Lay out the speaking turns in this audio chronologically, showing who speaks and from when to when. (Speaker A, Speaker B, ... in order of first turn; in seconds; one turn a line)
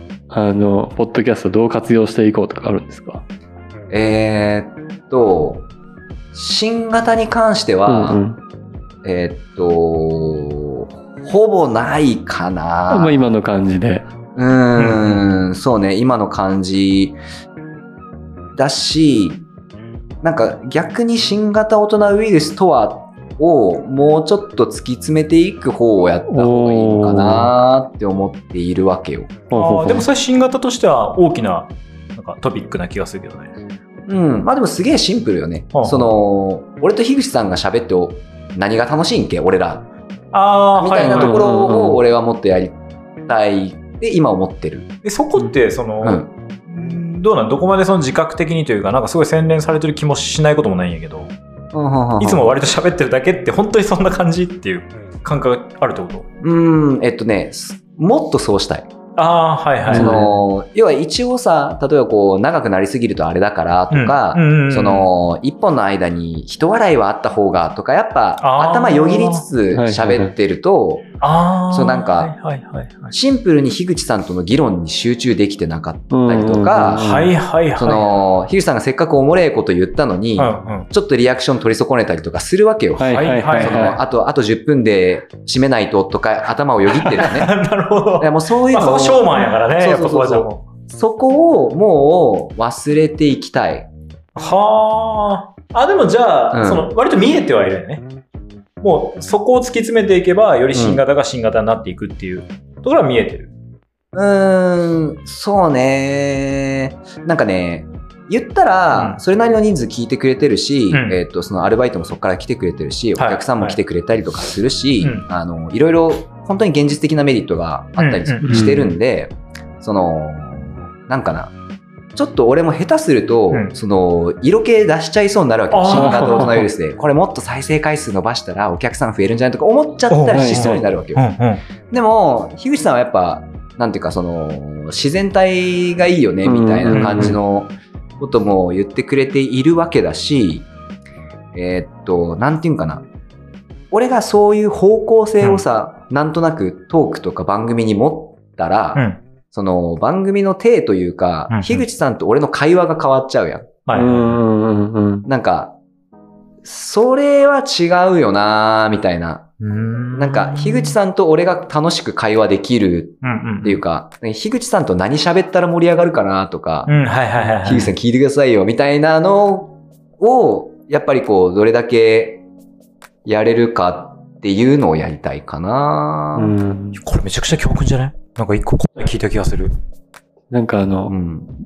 Speaker A: 0.3-3.2
Speaker B: 3.9-5.7
Speaker B: 6.3-8.2
Speaker A: 7.9-8.4
Speaker B: 9.0-13.2
Speaker A: 12.9-14.1
Speaker B: 14.3-17.2
Speaker C: 14.8-15.2
Speaker B: 18.6-19.4
Speaker B: 20.2-29.4
Speaker A: 26.3-27.5
Speaker A: 29.5-30.1
Speaker C: 29.5-33.5
Speaker B: 34.1-39.9
Speaker C: 35.7-36.1
Speaker C: 40.3-41.4
Speaker B: 40.8-44.9
Speaker A: 41.0-42.0
Speaker C: 45.0-51.3
Speaker B: 46.0-46.3
Speaker B: 51.7-52.5
Speaker C: 52.2-56.3
Speaker B: 56.4-58.9
Speaker C: 59.2-60.3
Speaker A: 59.9-60.2
Speaker B: 59.9-71.1
Speaker C: 63.9-65.1
Speaker C: 68.4-69.5
Speaker A: 69.7-70.3
Speaker C: 71.2-73.1
Speaker B: 71.7-72.3
Speaker B: 73.1-87.6
Speaker A: 76.1-77.3
Speaker C: 77.0-78.2
Speaker C: 80.4-80.9
Speaker A: 83.0-84.0
Speaker C: 83.1-83.9
Speaker C: 86.9-90.6
Speaker B: 88.2-93.9
Speaker C: 94.4-98.0
Speaker B: 96.5-96.9
Speaker C: 98.8-103.5
Speaker B: 100.7-101.0
Speaker B: 104.1-121.5
Speaker C: 109.0-109.2
Speaker C: 110.9-111.2
Speaker C: 113.2-113.8
Speaker C: 115.0-115.3
Speaker C: 118.0-118.7
Speaker A: 118.4-118.9
Speaker B: 122.2-131.3
Speaker C: 125.7-126.6
Speaker A: 125.9-126.6
Speaker C: 130.1-131.6
Speaker A: 130.3-130.8
Speaker B: 131.9-140.7
Speaker A: 136.4-137.4
Speaker C: 136.9-137.4
Speaker B: 141.5-143.1
Speaker B: 143.9-153.8
Speaker C: 148.9-149.2
Speaker C: 151.5-151.8
Speaker C: 153.9-154.4
Speaker A: 153.9-155.3
Speaker B: 155.2-155.8
Speaker B: 156.6-159.5
Speaker C: 159.6-160.9
Speaker B: 160.2-166.9
Speaker C: 163.2-163.8
Speaker C: 166.9-167.9
Speaker B: 167.6-172.4
Speaker B: 173.2-176.6
Speaker A: 176.4-177.0
Speaker C: 177.0-179.7
Speaker A: 180.5-181.2
Speaker B: 181.1-181.5